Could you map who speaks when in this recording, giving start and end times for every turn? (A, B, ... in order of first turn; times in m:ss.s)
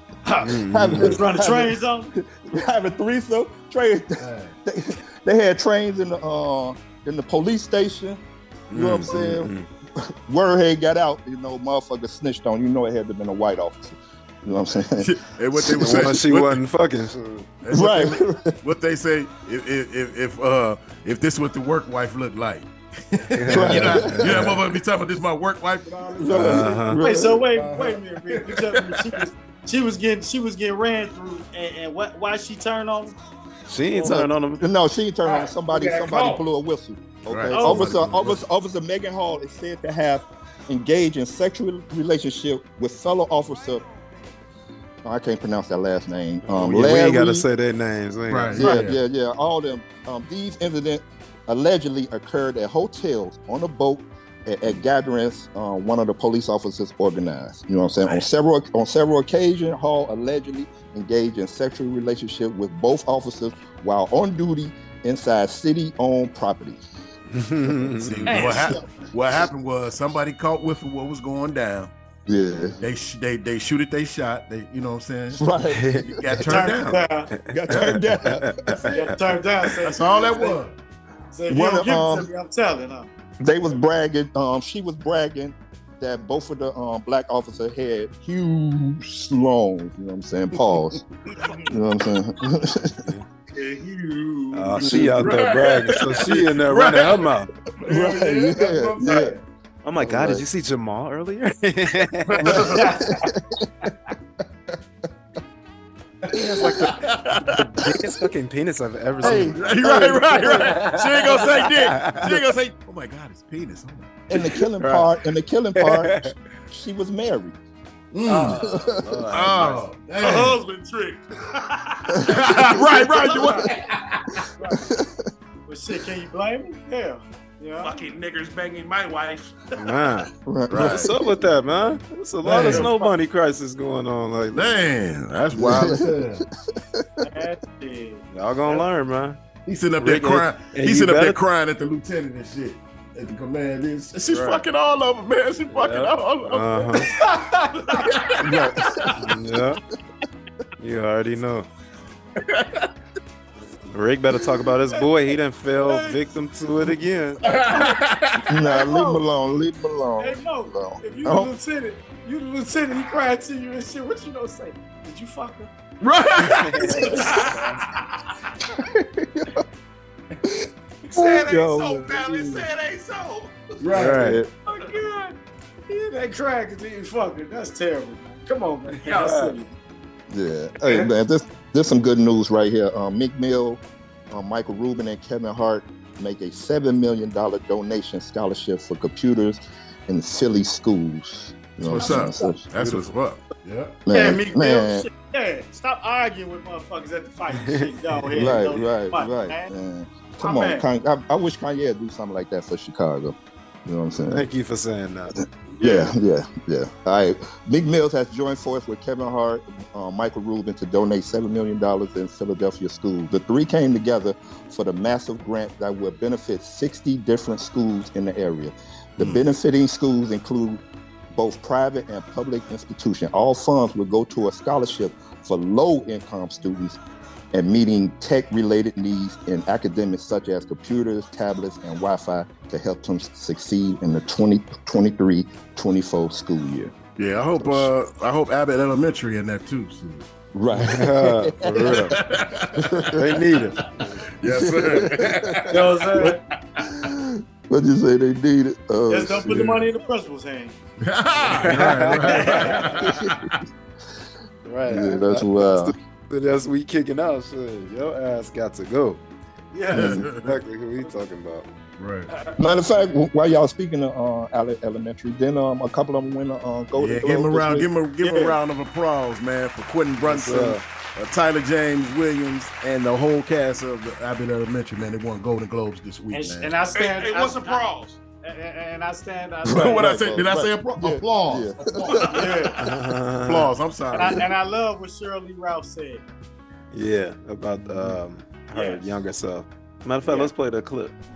0:00.2-0:02.1 A
0:00.4-0:01.2 B
0:00.4-0:16.2 C
0:04.2-0:04.5 D
0:08.7-0:09.7 B
0:15.0-0:16.6 D
0:15.8-0:17.5 B
0:17.6-0:26.8 D
0:17.7-0:18.5 C
0:23.3-0:24.6 B
0:23.5-0:24.6 C
0:26.2-0:27.4 C
0:26.3-0:27.0 B
0:27.0-0:33.1 A
0:27.5-0:29.2 D
0:33.7-0:34.6 B
0:33.9-0:34.3 A
0:34.0-0:43.8 C
0:35.2-0:36.4 E
0:37.3-0:38.4 D
0:37.5-0:37.9 A
0:45.0-0:47.4 C
0:46.4-0:48.7 B
0:48.3-0:49.0 D
0:48.6-1:06.8 C
0:48.6-0:48.9 A
1:07.3-1:08.4 B
1:08.0-1:11.9 D
1:08.3-1:08.8 A
1:12.3-1:12.8 C
1:12.8-1:15.4 D
1:15.3-1:16.2 C
1:15.7-1:16.7 B
1:16.0-1:17.1 D
1:16.4-1:17.3 A
1:17.3-1:19.3 B
1:17.5-1:18.8 C
1:17.7-1:18.0 D
1:18.8-1:20.6 A
1:19.8-1:20.8 D
1:21.3-1:23.1 A
1:21.5-1:22.3 C
1:23.4-1:31.0 C
1:31.3-1:31.7 E
1:31.7-1:33.0 C
1:33.5-1:36.3 E
1:34.5-1:37.5 B
1:34.8-1:35.2 C
1:35.2-1:39.4 D
1:37.9-1:39.3 C
1:39.8-1:42.6 B
1:40.0-1:40.4 C
1:42.3-1:43.0 E
1:42.6-1:43.6 C
1:42.7-1:43.2 A
1:46.3-1:49.6 B
1:46.6-1:47.6 D
1:49.2-1:50.9 C
1:49.2-1:54.2 D
1:50.3-1:52.4 B
1:54.3-1:57.6 C
1:54.4-1:55.1 B
1:55.8-1:56.3 B
1:58.1-1:58.6 D
1:58.2-1:59.9 B
1:58.4-1:59.2 C
1:59.3-2:00.6 D
2:00.2-2:03.6 E
2:02.2-2:04.5 D
2:03.0-2:03.7 A
2:04.6-2:04.8 A
2:04.8-2:05.2 C
2:05.7-2:08.1 A
2:07.8-2:10.2 E
2:09.8-2:14.8 B
2:10.4-2:11.4 C
2:10.7-2:11.1 D
2:12.4-2:12.9 D
2:12.6-2:13.1 A
2:14.5-2:16.4 D
2:15.5-2:17.2 C
2:17.2-2:18.8 A
2:18.3-2:19.4 B
2:19.6-2:27.2 D
2:20.0-2:21.4 B
2:24.3-2:24.6 B
2:25.7-2:27.2 B
2:27.2-2:28.1 A
2:27.8-2:28.3 E
2:28.0-2:29.1 D
2:28.4-2:29.3 C
2:29.2-2:29.8 B
2:30.8-2:31.7 B
2:32.4-2:32.9 D
2:33.9-2:37.4 B
2:34.9-2:36.2 A
2:37.4-2:38.4 D
2:37.5-2:38.0 A
2:38.5-2:41.5 C
2:38.5-2:39.2 A
2:40.2-2:45.7 A
2:46.0-2:47.3 D
2:46.4-2:47.2 B
2:46.8-2:47.5 A
2:47.0-2:48.0 E
2:48.8-2:49.6 C
2:50.5-2:52.7 C
2:51.1-2:54.0 E
2:53.8-2:54.4 D
2:53.9-2:54.4 B
2:54.0-2:54.5 C
2:54.7-2:59.7 A
2:59.0-2:59.5 B
3:00.3-3:12.6 C
3:11.8-3:14.0 D
3:12.0-3:12.5 A
3:12.7-3:13.1 B
3:14.1-3:15.1 C
3:14.1-3:19.7 A
3:18.3-3:24.4 C
3:20.4-3:20.8 A
3:24.3-3:25.3 B
3:25.8-3:47.0 C
3:25.8-3:26.1 A
3:47.5-3:56.9 C
3:57.2-4:00.3 D
3:57.6-3:57.9 C
4:00.5-4:02.2 C
4:00.8-4:02.2 B
4:02.0-4:03.2 D
4:03.0-4:04.2 B
4:04.4-4:06.3 D
4:04.4-4:05.7 C
4:05.7-4:06.4 A
4:06.8-4:09.6 C
4:09.1-4:10.8 A
4:09.5-4:09.9 D
4:11.0-4:13.6 D
4:11.5-4:12.8 B
4:12.2-4:12.9 A
4:13.0-4:13.3 C
4:14.6-4:19.2 B
4:14.8-4:15.9 C
4:19.7-4:20.2 A
4:19.9-4:20.6 D
4:19.9-4:21.7 B
4:19.9-4:20.2 C
4:22.0-4:22.3 D
4:22.6-4:27.9 C
4:26.9-4:36.8 D
4:28.2-4:28.6 A
4:30.2-4:30.8 B
4:36.3-4:37.8 A
4:37.0-4:38.2 E
4:38.4-4:40.1 A
4:39.6-4:42.5 C
4:39.7-4:41.9 D
4:41.9-4:42.8 E
4:42.3-4:42.8 A
4:42.8-4:43.7 B
4:43.4-4:44.5 D
4:44.1-4:46.2 A
4:46.9-4:51.1 B
4:48.7-4:49.1 A
4:50.2-4:50.5 A